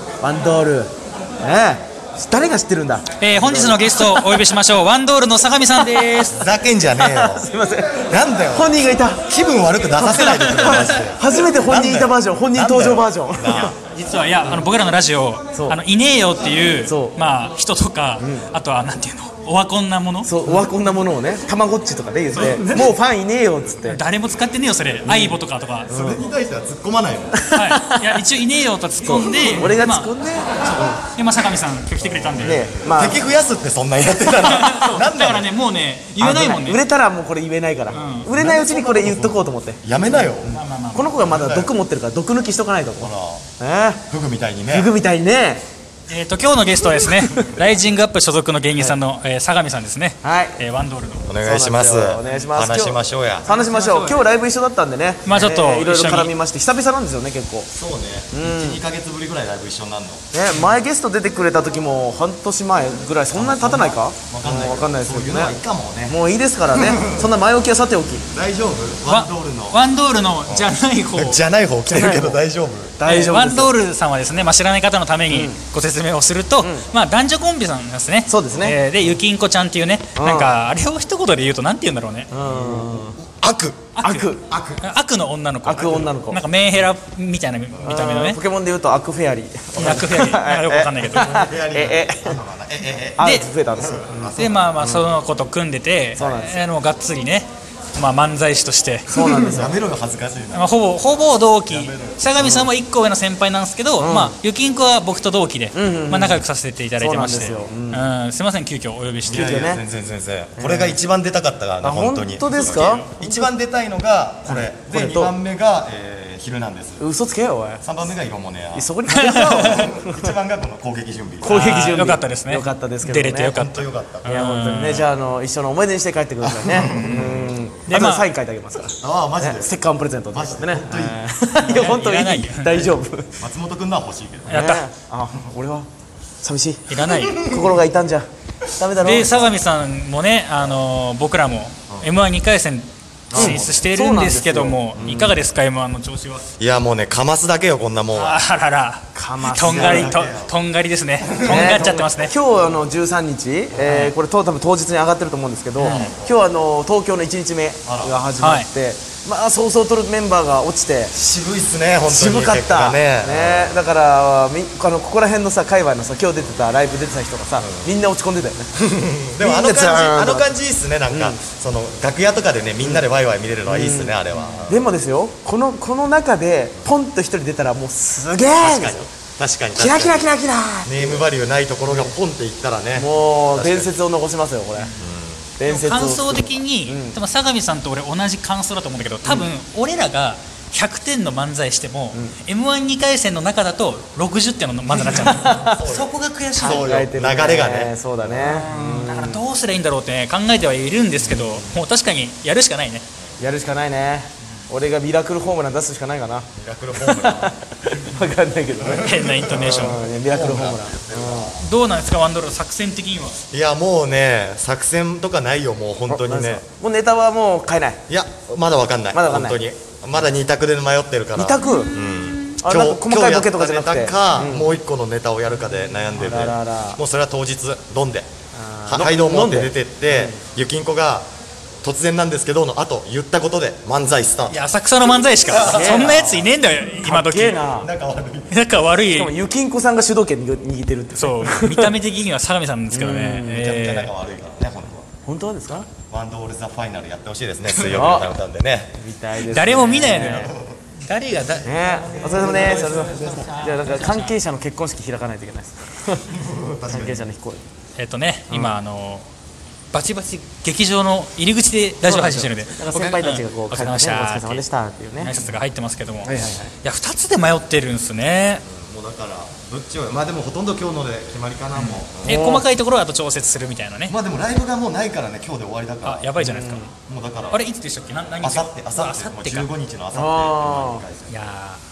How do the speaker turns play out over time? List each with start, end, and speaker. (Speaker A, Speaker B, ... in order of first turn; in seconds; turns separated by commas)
Speaker A: 0.2-4.5, Speaker B: 3.2-6.5, Speaker C: 6.3-7.5, Speaker A: 6.9-9.3, Speaker C: 8.1-8.7, Speaker C: 9.2-13.8, Speaker A: 10.0-13.8, Speaker B: 10.2-10.9, Speaker B: 13.9-20.5, Speaker A: 15.5-15.8, Speaker A: 16.9-17.2, Speaker A: 18.2-18.5, Speaker A: 20.2-24.0, Speaker B: 22.3-22.6, Speaker C: 22.4-22.9, Speaker B: 23.8-25.9, Speaker A: 25.0-26.2, Speaker C: 25.9-27.4, Speaker A: 27.4-28.2, Speaker B: 27.5-30.1, Speaker A: 29.0-31.0, Speaker B: 30.6-32.7, Speaker C: 32.2-35.5, Speaker A: 32.4-33.2, Speaker A: 34.0-35.0, Speaker B: 34.3-36.8, Speaker A: 36.2-44.0, Speaker C: 37.9-40.6, Speaker B: 37.9-38.3, Speaker B: 40.5-41.1, Speaker C: 41.2-41.7, Speaker C: 43.0-43.5, Speaker C: 44.1-44.9, Speaker A: 44.7-45.6, Speaker B: 46.1-51.3, Speaker A: 46.9-47.5, Speaker A: 50.2-50.6, Speaker C: 51.3-53.5, Speaker A: 51.4-57.7, Speaker B: 52.2-52.5, Speaker B: 53.5-54.2, Speaker B: 55.3-56.3, Speaker C: 57.7-60.3, Speaker A: 58.3-58.8, Speaker A: 60.3-68.3, Speaker C: 63.3-66.2, Speaker C: 66.7-67.3, Speaker C: 68.3-69.8, Speaker B: 69.1-71.4, Speaker C: 70.5-73.0, Speaker A: 71.9-72.4, Speaker A: 73.0-73.7, Speaker B: 73.0-82.3, Speaker A: 75.3-75.6, Speaker A: 76.6-76.9, Speaker A: 78.3-78.8, Speaker A: 80.2-80.6, Speaker A: 82.3-83.2, Speaker C: 82.4-83.9, Speaker B: 83.9-84.3, Speaker A: 84.0-84.5, Speaker C: 84.5-84.9, Speaker B: 84.8-88.4, Speaker A: 85.7-86.4, Speaker C: 85.8-86.1, Speaker A: 87.8-92.4, Speaker B: 89.8-91.5, Speaker C: 91.1-93.2, Speaker B: 93.2-93.5, Speaker A: 93.2-95.1, Speaker C: 93.8-94.7, Speaker B: 94.4-99.5, Speaker A: 96.2-96.6, Speaker A: 99.1-99.8, Speaker C: 99.5-100.7, Speaker B: 100.5-109.6, Speaker C: 101.7-102.2, Speaker A: 102.4-102.7, Speaker A: 104.0-104.4, Speaker A: 105.7-106.5, Speaker A: 107.0-108.0, Speaker C: 109.2-117.0, Speaker A: 109.3-109.8, Speaker A: 110.6-111.0, Speaker A: 111.8-113.5, Speaker B: 112.5-113.1, Speaker A: 114.5-115.3, Speaker A: 117.0-117.8, Speaker C: 117.8-121.5, Speaker A: 118.7-120.3, Speaker B: 119.1-119.9, Speaker A: 121.4-123.5, Speaker B: 121.4-125.1, Speaker C: 123.5-124.3, Speaker A: 124.2-133.4, Speaker C: 126.4-127.5, Speaker B: 126.9-128.3, Speaker C: 129.0-129.7, Speaker C: 130.3-131.2, Speaker B: 131.6-132.9, Speaker C: 133.4-134.7, Speaker A: 134.5-135.9, Speaker B: 134.5-134.9, Speaker A: 136.4-139.5, Speaker B: 136.9-137.6, Speaker B: 139.0-146.5, Speaker C: 143.3-143.7, Speaker A: 143.3-145.4, Speaker C: 145.0-145.3, Speaker C: 146.6-148.4, Speaker B: 148.1-152.3, Speaker A: 149.1-150.2, Speaker C: 149.6-150.6, Speaker C: 151.2-151.9, Speaker A: 151.4-161.1, Speaker B: 153.8-154.1, Speaker B: 155.8-156.1, Speaker C: 155.9-156.3, Speaker C: 157.9-158.2, Speaker B: 158.4-158.7, Speaker C: 161.1-163.7, Speaker A: 162.1-168.8, Speaker C: 167.6-167.9, Speaker C: 168.8-174.9, Speaker A: 169.4-170.5, Speaker A: 171.1-171.4, Speaker A: 173.7-174.2, Speaker A: 174.7-179.1, Speaker C: 178.6-180.3, Speaker A: 179.8-181.2, Speaker C: 180.8-184.0, Speaker A: 181.9-182.1, Speaker A: 182.9-184.9, Speaker B: 184.8-185.0, Speaker C: 185.0-185.5, Speaker A: 185.6-187.2, Speaker B: 185.7-196.9, Speaker A: 192.1-192.4, Speaker A: 194.9-195.8, Speaker C: 195.2-198.3, Speaker A: 196.6-199.4, Speaker B: 198.4-203.1, Speaker A: 201.2-201.7, Speaker A: 203.4-206.5, Speaker C: 206.6-207.5, Speaker A: 207.0-211.6, Speaker C: 208.8-211.7, Speaker B: 209.0-210.0, Speaker B: 211.6-213.4, Speaker C: 213.5-216.7, Speaker A: 216.1-218.0, Speaker C: 218.1-228.3, Speaker A: 219.1-219.6, Speaker A: 221.4-222.0, Speaker B: 221.6-222.5, Speaker A: 222.6-224.7, Speaker A: 226.1-227.0, Speaker A: 228.6-230.4, Speaker C: 228.9-231.3, Speaker C: 231.8-234.6, Speaker B: 234.5-237.6, Speaker C: 235.5-236.5, Speaker A: 235.6-236.4, Speaker A: 237.0-237.9, Speaker C: 237.8-238.6, Speaker B: 238.5-239.3, Speaker A: 239.1-241.9, Speaker B: 241.2-244.1, Speaker A: 242.9-243.7, Speaker C: 243.5-245.1, Speaker A: 245.2-245.9, Speaker C: 246.1-248.9, Speaker B: 247.7-248.1, Speaker A: 247.9-248.3, Speaker A: 249.0-250.5, Speaker B: 249.4-254.3, Speaker C: 250.0-250.8, Speaker C: 251.5-253.6, Speaker A: 251.6-256.3, Speaker C: 256.3-257.2, Speaker A: 256.9-257.6, Speaker B: 258.0-259.3, Speaker A: 258.5-258.8, Speaker B: 259.9-264.6, Speaker A: 262.0-265.4, Speaker B: 265.2-268.6, Speaker A: 266.2-266.7, Speaker C: 268.6-272.6, Speaker B: 271.8-274.1, Speaker A: 272.3-272.6, Speaker C: 274.1-277.6, Speaker B: 276.0-276.9, Speaker A: 276.4-276.9, Speaker B: 277.5-279.7, Speaker C: 278.4-281.4, Speaker A: 280.1-281.0, Speaker B: 281.3-281.8